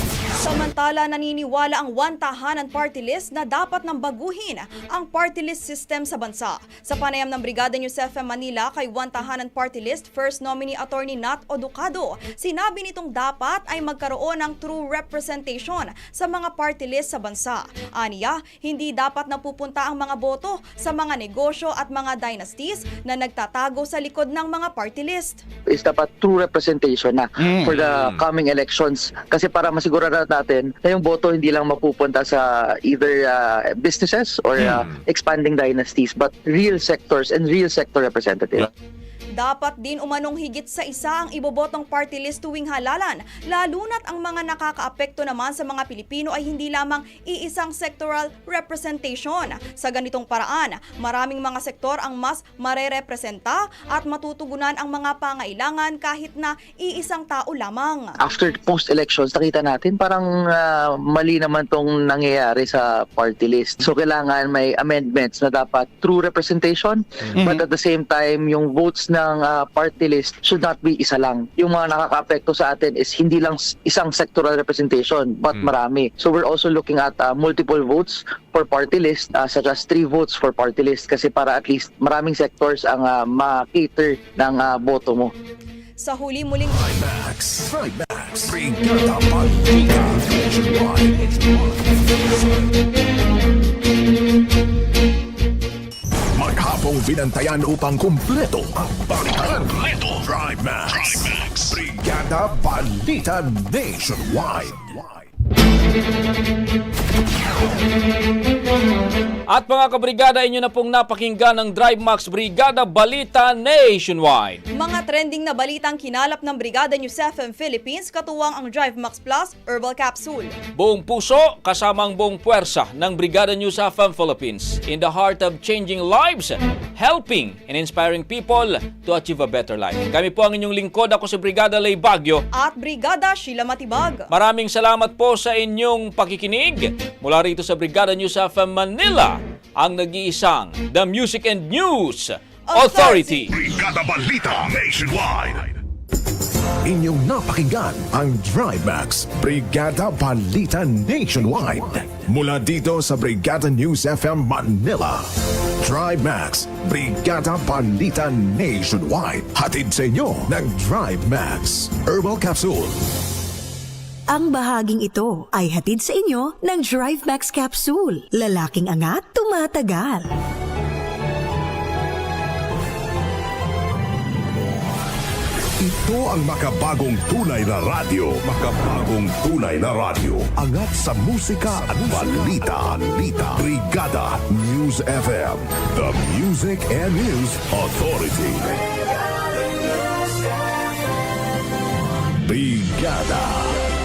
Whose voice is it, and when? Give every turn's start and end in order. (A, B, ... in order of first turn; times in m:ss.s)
0:00.4-0:25.4 A
0:25.7-0:38.7 B
0:39.4-0:58.2 A
0:58.2-1:25.3 B
1:26.0-1:26.8 A
1:26.8-1:31.9 C
1:36.4-1:45.2 C
1:49.5-1:54.6 D
1:54.8-2:00.5 A
2:00.8-2:12.4 D
2:12.5-2:14.3 A
2:14.3-2:23.5 D
2:22.7-2:23.7 A
2:23.6-2:25.7 C
2:26.8-2:35.3 C
2:35.8-2:43.0 C
2:44.3-2:50.3 E
2:55.8-3:08.8 C
3:12.4-3:13.8 C